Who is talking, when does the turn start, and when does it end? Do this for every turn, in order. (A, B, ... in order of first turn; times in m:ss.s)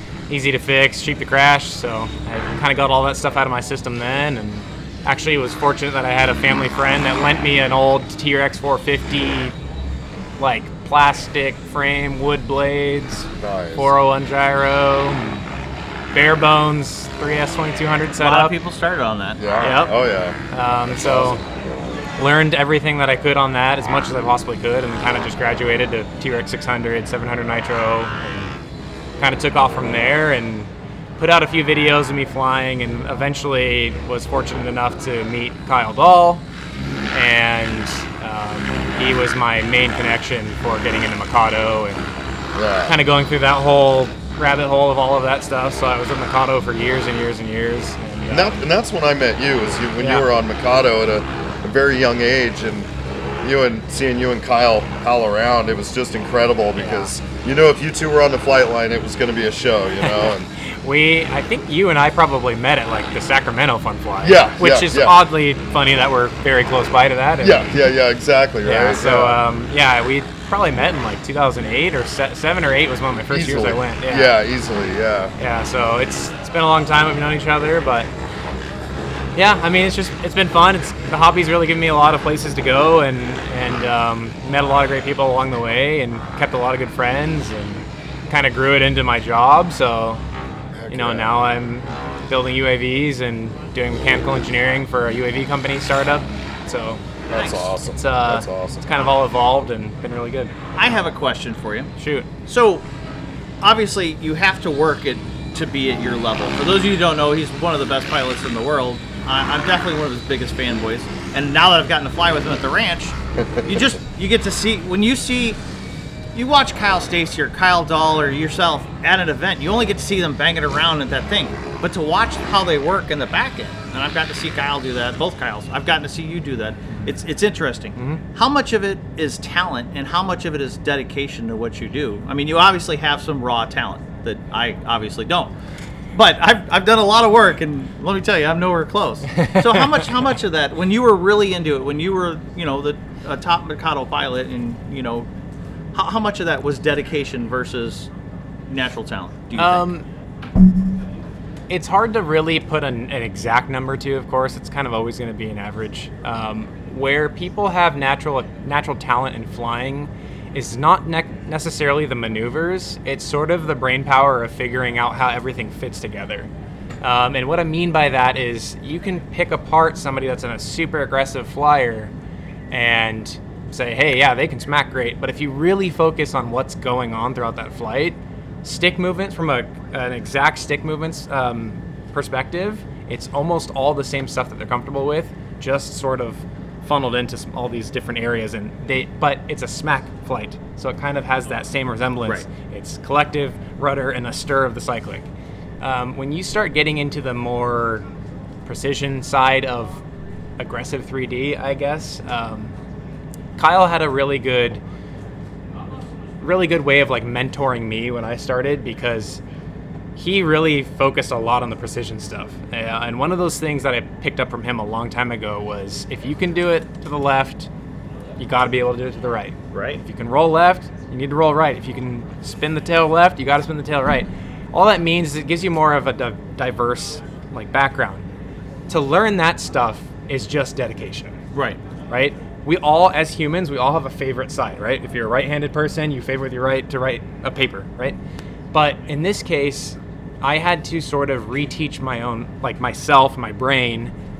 0:00.3-0:09.5 A
0:10.4-0:15.4 A
0:13.4-0:13.9 B
0:16.1-0:18.6 A
0:18.2-0:19.6 C
0:19.4-0:22.0 B
0:19.6-0:21.4 A
0:22.2-0:28.5 A
0:29.2-0:36.4 A
0:37.1-0:42.1 A
0:42.5-0:43.0 B
0:42.8-0:48.7 A
0:48.3-0:52.9 B
0:50.0-0:50.3 A
0:53.4-1:00.5 B
0:56.8-0:57.1 A
1:00.0-1:07.8 A
1:04.2-1:05.2 B
1:07.4-1:09.4 B
1:08.6-1:14.4 A
1:13.3-1:15.3 B
1:15.4-1:18.1 A
1:19.3-1:30.2 A
1:30.7-1:31.4 B
1:30.9-1:37.0 A
1:37.3-1:38.9 B
1:37.3-1:37.7 C
1:37.8-1:40.5 A
1:40.8-1:41.9 C
1:42.0-1:42.3 A
1:42.4-1:42.8 C
1:43.6-1:55.6 C
1:53.4-1:53.8 B
1:56.3-2:15.5 C
2:16.1-2:25.3 C
2:19.3-2:19.7 A
2:25.9-2:28.1 C
2:28.7-2:29.9 C
2:29.6-2:30.0 A
2:31.7-2:46.5 A
2:47.0-2:52.1 A
2:52.7-3:15.3 A
3:15.8-3:18.0 A
3:18.6-3:20.0 A
3:20.6-3:22.7 A
3:23.6-3:24.8 A
3:26.4-3:29.4 A
3:30.2-3:37.7 A
3:38.4-3:48.2 A
3:39.7-3:40.0 C
3:48.9-3:51.4 A
3:51.5-3:51.8 C
3:52.1-3:58.2 A
3:58.7-4:04.1 A